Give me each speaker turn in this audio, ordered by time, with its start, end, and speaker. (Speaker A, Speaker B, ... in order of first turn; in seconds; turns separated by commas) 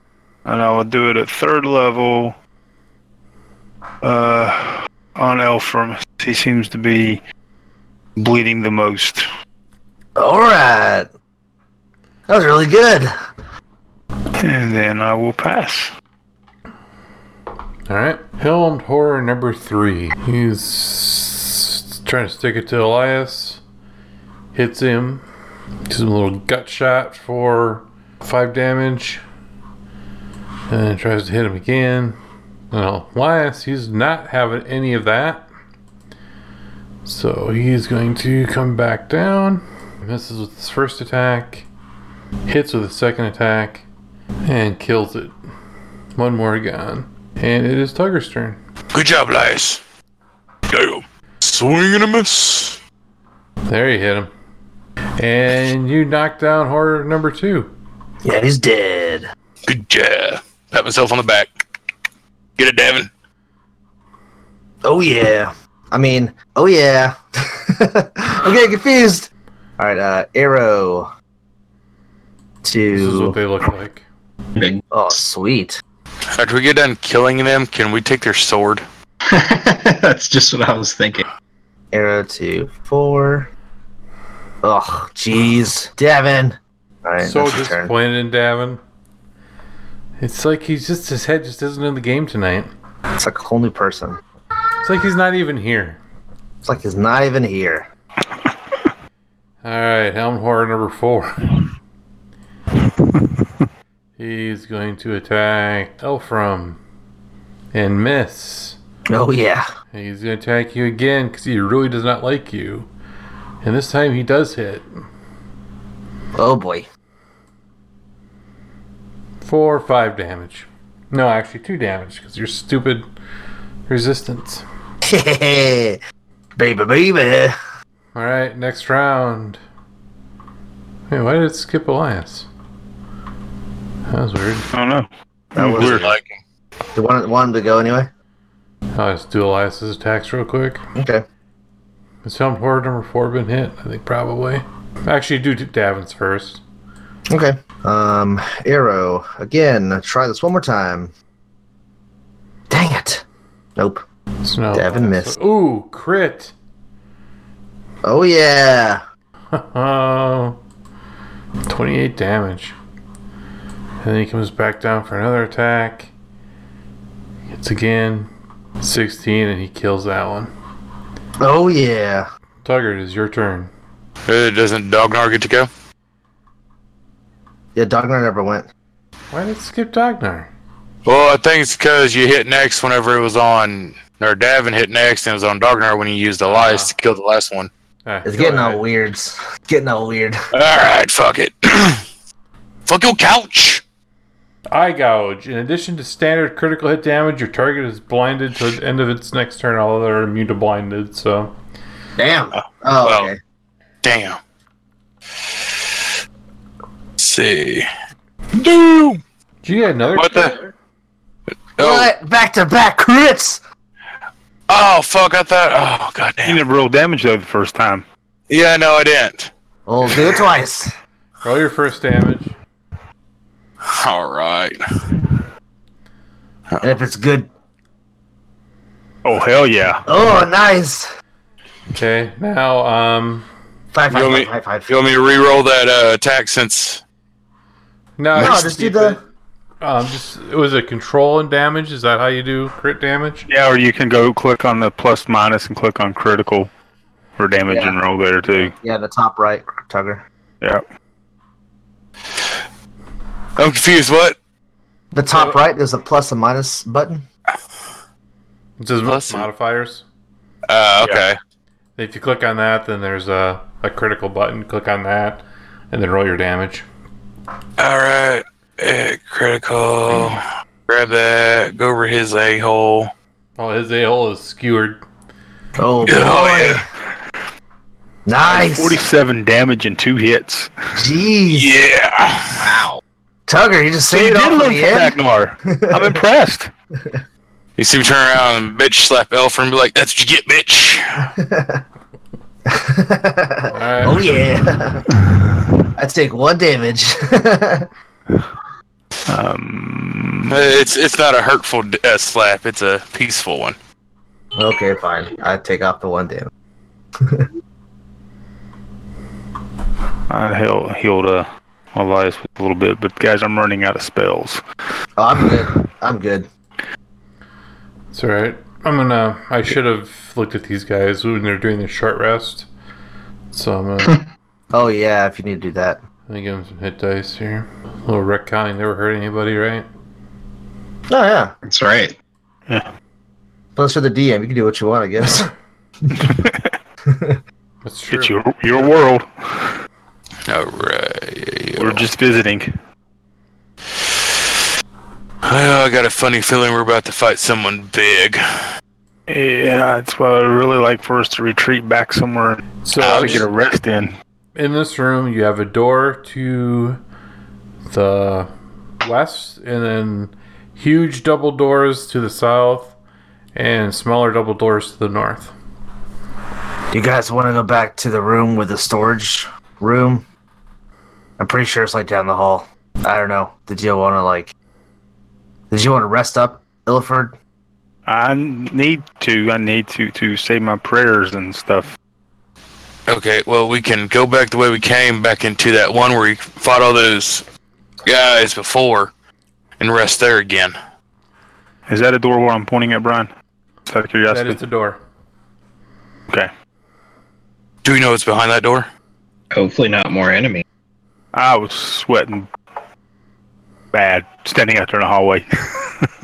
Speaker A: 0.4-2.4, Speaker A: 4.0-7.2, Speaker A: 8.2-9.2, Speaker B: 10.2-11.1, Speaker B: 12.3-13.1, Speaker A: 14.4-15.9, Speaker C: 17.9-23.6, Speaker C: 24.5-25.2, Speaker C: 25.9-29.2, Speaker C: 30.7-32.2, Speaker C: 32.7-35.5, Speaker C: 37.0-41.7, Speaker C: 42.5-43.9, Speaker C: 44.4-45.4, Speaker C: 46.1-48.6, Speaker D: 48.9-49.8, Speaker D: 50.7-52.8, Speaker C: 53.6-54.3, Speaker C: 55.2-57.7, Speaker B: 58.2-59.3, Speaker D: 59.6-61.5, Speaker D: 62.6-63.1, Speaker B: 64.8-71.1, Speaker B: 72.6-73.3, Speaker C: 72.9-74.1, Speaker E: 74.5-74.8, Speaker B: 74.9-75.8, Speaker D: 76.3-78.8, Speaker E: 79.2-81.2, Speaker B: 81.9-83.5, Speaker B: 84.6-87.9, Speaker C: 87.2-88.8, Speaker C: 90.2-92.7, Speaker B: 93.2-94.2, Speaker C: 94.8-96.0, Speaker B: 96.6-97.9, Speaker C: 99.6-101.6, Speaker C: 104.2-106.8, Speaker C: 107.7-108.8, Speaker B: 109.1-109.7, Speaker C: 109.9-112.9, Speaker C: 113.6-114.9, Speaker B: 116.4-116.9, Speaker C: 119.4-123.1, Speaker C: 123.9-124.6, Speaker B: 125.0-126.0, Speaker B: 126.5-127.5, Speaker C: 128.1-129.6, Speaker C: 131.1-132.5, Speaker C: 134.1-134.7, Speaker A: 134.7-136.1, Speaker B: 135.5-136.0, Speaker D: 135.8-136.4, Speaker B: 136.9-138.1, Speaker C: 138.9-140.8, Speaker B: 140.9-141.2, Speaker C: 142.2-146.6, Speaker B: 147.3-151.1, Speaker B: 152.7-153.2, Speaker B: 153.8-154.1, Speaker C: 154.4-156.5, Speaker B: 154.7-155.3, Speaker B: 158.0-159.0, Speaker C: 159.5-160.6, Speaker C: 161.7-162.7, Speaker C: 164.0-166.1, Speaker C: 167.5-168.3, Speaker C: 168.8-170.5, Speaker B: 171.4-172.3, Speaker C: 172.6-173.7, Speaker D: 174.2-175.7, Speaker B: 177.7-178.7, Speaker C: 179.3-180.5, Speaker D: 181.1-187.7, Speaker C: 186.4-186.9, Speaker C: 188.1-188.8, Speaker B: 188.2-190.4, Speaker D: 190.5-192.0, Speaker D: 192.9-193.8, Speaker C: 194.7-201.6, Speaker B: 202.2-203.4, Speaker D: 202.5-203.3, Speaker D: 204.0-204.4, Speaker D: 207.2-207.9, Speaker D: 208.5-209.2, Speaker C: 209.6-210.6, Speaker D: 210.1-210.6, Speaker D: 211.8-212.1, Speaker B: 211.8-213.6, Speaker D: 214.7-216.6, Speaker A: 216.4-218.0, Speaker D: 218.5-219.5, Speaker B: 219.9-220.9, Speaker D: 220.1-220.4, Speaker C: 221.4-222.5, Speaker D: 223.8-225.2, Speaker B: 226.8-227.5, Speaker A: 229.2-230.1, Speaker B: 230.1-231.1, Speaker C: 231.9-233.5, Speaker B: 233.9-234.9, Speaker D: 234.1-237.0, Speaker C: 238.2-239.2, Speaker B: 238.4-239.2, Speaker C: 239.8-243.5, Speaker A: 243.5-246.7, Speaker A: 247.4-248.7, Speaker B: 247.7-248.0, Speaker B: 248.5-250.2, Speaker D: 253.6-254.4, Speaker B: 255.1-257.2, Speaker C: 258.8-260.0, Speaker D: 259.1-259.4, Speaker D: 260.7-261.4, Speaker C: 262.0-266.9, Speaker D: 267.8-273.1, Speaker C: 273.6-275.0, Speaker B: 275.8-276.9, Speaker D: 276.0-276.9, Speaker B: 278.2-279.0, Speaker A: 278.4-280.8, Speaker B: 280.9-281.8, Speaker D: 281.5-282.7, Speaker E: 282.6-283.0, Speaker B: 283.5-286.2, Speaker A: 284.1-286.7, Speaker D: 287.8-291.3, Speaker B: 291.3-291.8, Speaker B: 292.6-295.2, Speaker C: 293.7-294.3, Speaker A: 295.3-295.6, Speaker B: 295.9-297.9, Speaker A: 299.3-300.7, Speaker D: 300.5-303.8, Speaker B: 304.6-306.5, Speaker B: 307.2-307.5, Speaker A: 310.3-314.6, Speaker B: 315.2-316.5, Speaker C: 318.1-322.7, Speaker C: 323.5-324.2, Speaker B: 324.7-326.0, Speaker C: 326.3-329.9, Speaker B: 331.1-331.5, Speaker E: 331.6-332.1, Speaker B: 333.8-335.5, Speaker A: 336.1-336.7, Speaker B: 337.1-337.4, Speaker C: 337.8-338.4, Speaker A: 338.1-339.8, Speaker D: 340.5-342.1, Speaker A: 341.8-342.7, Speaker D: 345.4-348.4, Speaker A: 349.3-354.1, Speaker C: 352.9-353.4, Speaker D: 353.0-353.4, Speaker C: 354.6-357.0, Speaker C: 357.9-358.5, Speaker C: 359.0-362.9, Speaker C: 363.5-365.5, Speaker B: 366.9-370.2, Speaker B: 371.4-374.5, Speaker B: 375.7-377.4, Speaker A: 378.1-381.9, Speaker D: 383.1-387.4, Speaker D: 388.1-389.1, Speaker D: 389.8-390.7, Speaker A: 391.9-393.3, Speaker A: 393.9-394.6, Speaker C: 394.3-395.0, Speaker D: 397.8-398.9, Speaker E: 399.5-400.6, Speaker A: 401.3-402.5, Speaker A: 403.9-406.1